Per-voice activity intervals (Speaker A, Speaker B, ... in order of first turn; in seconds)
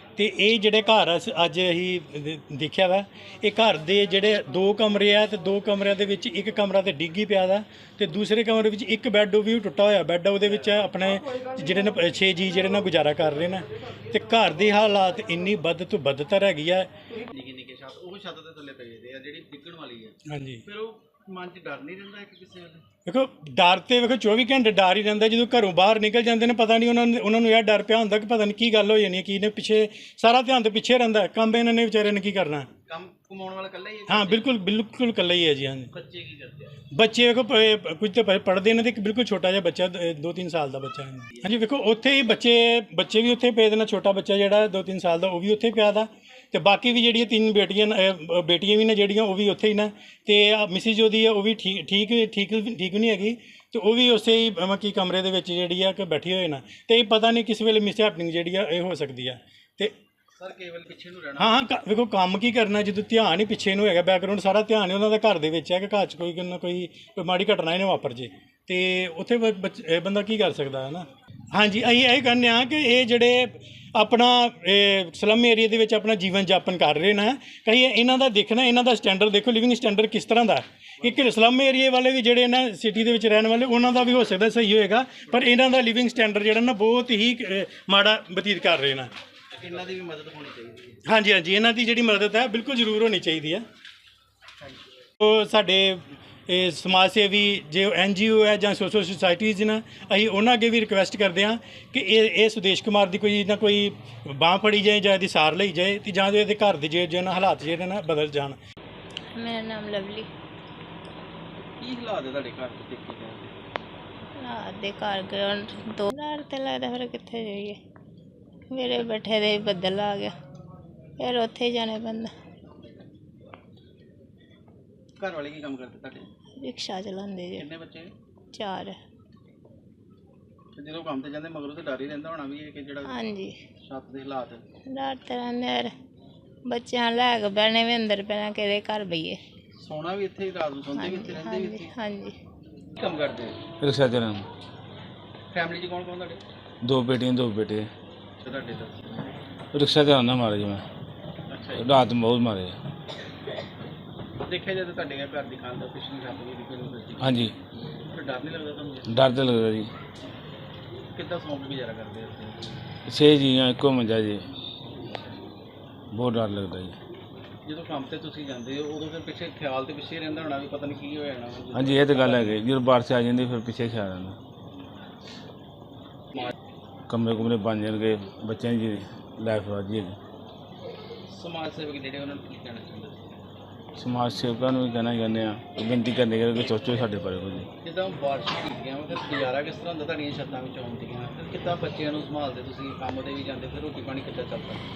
Speaker A: 0.2-16.9, 20.3-20.6, 23.1-32.7, 34.1-35.9, 36.9-59.9, 61.4-89.1, 91.0-93.6, 95.2-108.6
Speaker B: 17.3-20.1, 20.7-22.8, 32.9-34.5, 35.9-36.8, 60.4-61.6, 89.5-91.0, 111.8-113.5, 125.2-126.3, 127.5-128.1, 130.8-133.3, 133.8-134.6, 139.8-141.9, 143.0-143.6, 145.5-146.4, 148.4-149.1, 151.5-152.0, 154.4-157.5, 158.0-159.3, 161.1-162.6, 167.7-172.6, 181.3-183.4, 187.8-194.8
Speaker C: 109.3-110.3, 114.4-117.8, 118.7-120.3, 121.2-122.3, 126.6-127.7, 128.5-129.0, 133.1-133.6, 134.9-135.9, 136.7-139.4, 141.0-142.3
Speaker D: 143.8-144.5, 146.8-147.9, 149.7-150.8, 151.7-152.8, 157.2-157.6, 159.1-159.9, 163.1-164.4, 166.1-167.0, 171.7-174.4, 177.1-180.2, 184.0-187.7